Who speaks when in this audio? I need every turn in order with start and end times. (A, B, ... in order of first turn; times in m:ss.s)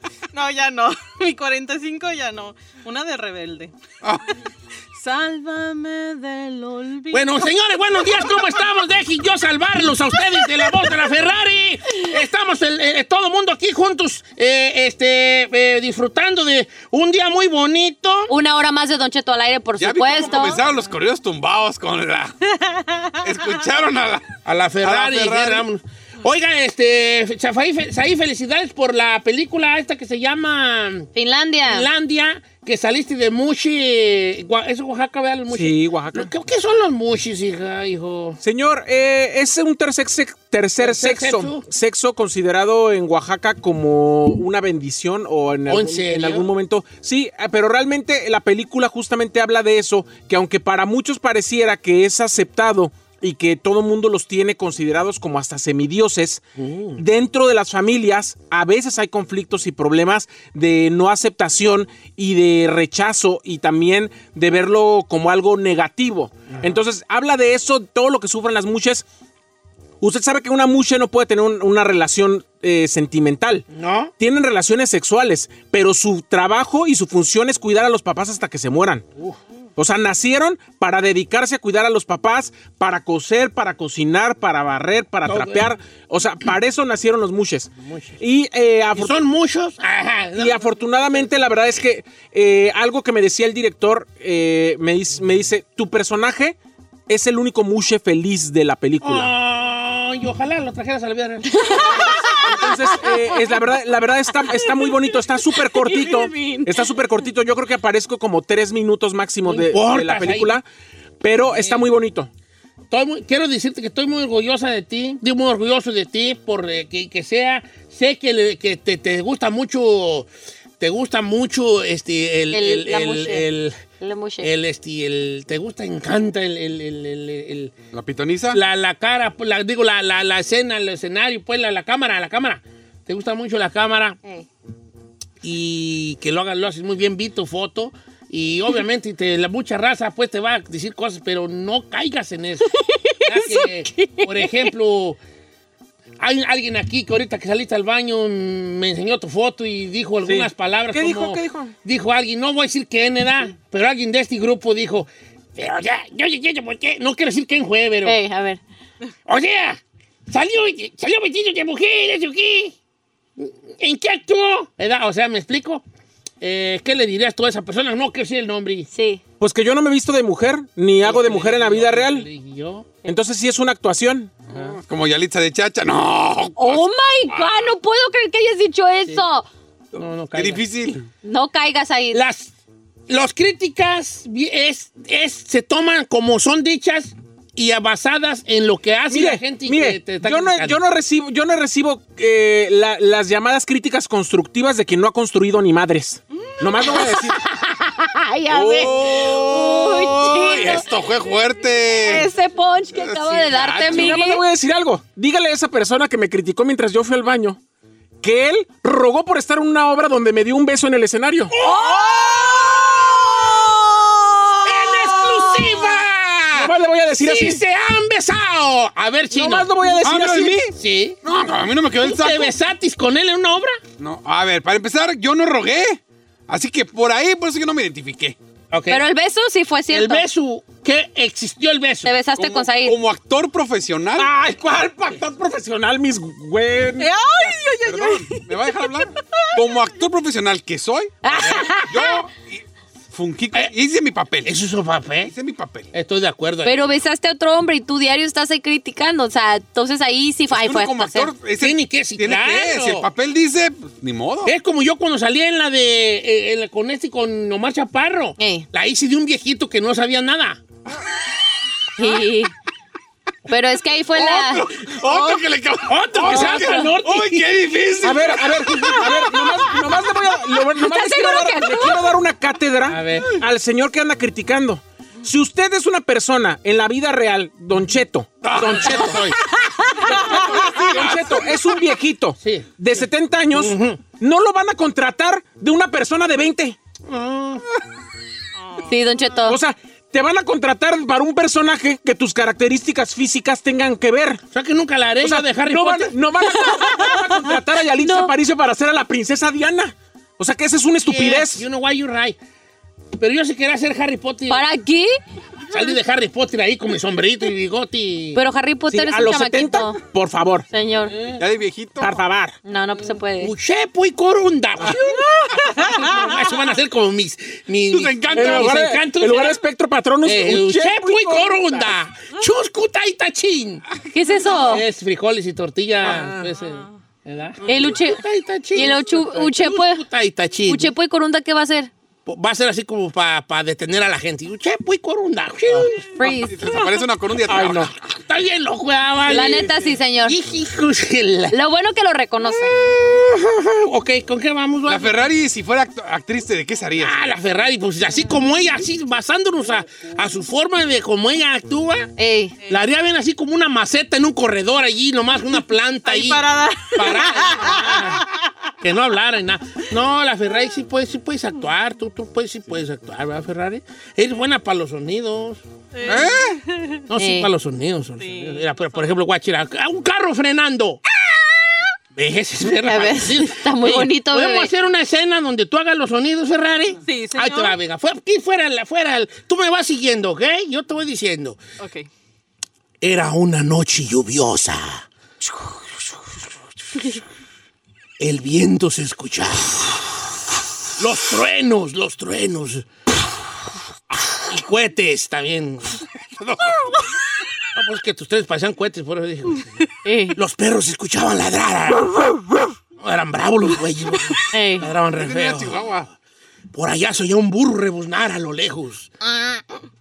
0:00.3-0:03.7 A
0:04.9-0:08.6 A
0:07.1-0:18.3 B
0:10.1-0:10.9 A
0:18.3-0:20.6 C
0:19.8-0:22.3 D
0:22.7-0:23.1 A
0:23.2-0:24.3 D
0:24.4-0:31.1 B
0:24.8-0:25.6 D
0:31.1-0:31.9 C
0:31.6-0:38.4 B
0:35.5-0:36.3 E
0:38.4-0:56.4 E
0:40.8-0:41.6 B
0:45.7-0:46.5 B
0:56.6-0:57.0 B
0:57.0-1:09.0 E
1:06.5-1:06.8 B
1:10.0-1:13.6 E
1:13.7-1:14.1 B
1:14.2-1:19.0 E
1:19.8-1:29.2 E
1:25.2-1:25.7 B
1:27.8-1:28.2 B
1:28.9-1:31.3 B
1:30.4-1:36.6 E
1:37.1-1:39.3 E
1:39.0-1:42.2 B
1:42.5-1:50.6 E
1:49.4-1:50.6 B
1:51.2-1:52.3 E
1:51.4-1:51.8 B
1:52.9-2:00.3 B
2:00.8-2:03.8 B
2:02.5-2:04.5 C
2:04.4-2:07.7 B
2:07.9-2:08.6 D
2:08.5-2:14.2 B
2:15.4-2:25.2 B
2:23.1-2:24.7 C
2:26.2-2:38.2 B
2:30.2-2:31.7 E
2:38.0-2:38.6 C
2:39.2-2:42.8 B
2:43.4-2:45.8 B
2:46.4-2:48.9 B
2:48.9-2:49.2 C
2:49.4-2:52.2 E
2:51.0-2:52.9 B
2:53.0-2:54.3 E
2:54.5-2:57.7 D
2:56.6-2:59.5 C
3:00.0-3:00.9 B
3:00.3-3:01.1 D
3:01.2-3:02.2 C
3:02.1-3:02.5 B
3:03.1-3:10.8 B
3:09.1-3:17.4 E
3:18.0-3:20.9 C
3:18.5-3:22.3 D
3:22.0-3:24.4 C
3:22.9-3:24.2 D
3:23.8-3:27.6 E
3:28.2-3:31.5 E
3:31.5-3:32.8 B
3:34.6-3:39.7 B
3:36.5-3:37.6 E
3:39.3-3:40.7 E
3:40.0-3:40.7 D
3:40.7-3:41.2 B
3:41.2-3:42.5 D
3:42.0-3:43.8 B
3:44.0-3:48.4 D
3:48.7-3:49.0 B
3:48.9-3:50.2 C
3:49.9-3:52.1 B
3:52.0-3:53.0 C
3:52.4-3:54.3 D
3:54.2-3:57.5 E
3:57.0-3:59.0 A
3:57.8-4:01.2 D
4:01.2-4:02.2 C
4:01.4-4:01.7 B
4:01.9-4:04.5 D
4:04.4-4:05.3 B
4:05.2-4:05.9 D
4:05.9-4:06.8 B
4:06.6-4:11.3 C
4:10.5-4:14.5 D
4:11.6-4:13.1 B
4:14.4-4:20.6 B
4:18.4-4:18.7 C
4:22.0-4:22.5 C
4:23.5-4:25.4 C
4:24.1-4:29.4 D
4:25.9-4:27.5 B
4:26.3-4:26.9 C
4:28.0-4:39.2 E
4:30.7-4:32.1 C
4:32.9-4:33.3 B
4:38.4-4:39.2 D
4:38.6-4:39.4 B
4:40.0-4:46.8 E
4:40.4-4:41.4 D
4:42.4-4:44.0 B
4:47.1-4:47.6 B
4:48.6-4:48.9 A
4:48.8-4:49.6 C
4:49.5-4:54.4 E
4:54.5-4:56.2 B
4:55.2-5:01.6 E
4:56.7-4:57.0 C
4:58.0-4:58.3 C
5:01.0-5:02.4 B
5:03.2-5:04.6 B
5:04.5-5:05.1 C
5:05.7-5:08.4 B
5:08.3-5:10.0 C
5:08.9-5:10.7 E
5:10.7-5:11.2 C
5:11.3-5:12.2 D
5:12.0-5:12.6 E
5:12.6-5:13.5 C
5:13.4-5:19.6 B
5:15.4-5:16.3 A
5:17.9-5:18.8 D
5:18.3-5:21.9 E
5:20.2-5:23.8 B
5:24.1-5:24.9 C
5:24.6-5:30.9 B
5:26.0-5:26.5 E
5:27.6-5:28.2 C
5:28.7-5:30.0 C
5:30.6-5:31.9 C
5:32.2-5:36.1 B
5:36.2-5:36.8 C
5:36.2-5:38.0 D
5:37.5-5:37.9 E
5:38.2-5:41.6 B
5:39.2-5:40.4 C
5:41.5-5:42.7 C
5:42.9-5:45.2 B
5:44.9-5:47.2 D
5:47.0-5:52.1 B
5:52.2-5:52.6 C
5:52.7-5:58.2 B
5:56.0-5:58.3 A
5:58.8-6:05.6 B
6:05.9-6:07.0 A
6:06.0-6:06.6 D
6:07.1-6:11.0 B
6:07.1-6:07.5 C
6:08.2-6:09.0 A
6:12.1-6:21.6 B
6:12.8-6:14.7 C
6:17.0-6:17.7 A
6:21.8-6:22.1 A
6:23.0-6:25.1 B
6:28.2-6:30.0 B
6:31.0-6:32.9 B
6:34.4-6:36.7 B
6:37.7-6:39.7 B
6:40.0-6:40.4 C
6:40.3-6:42.1 B
6:43.0-6:45.9 B
6:44.5-6:44.9 C
6:45.2-6:46.1 D
6:46.7-6:49.1 B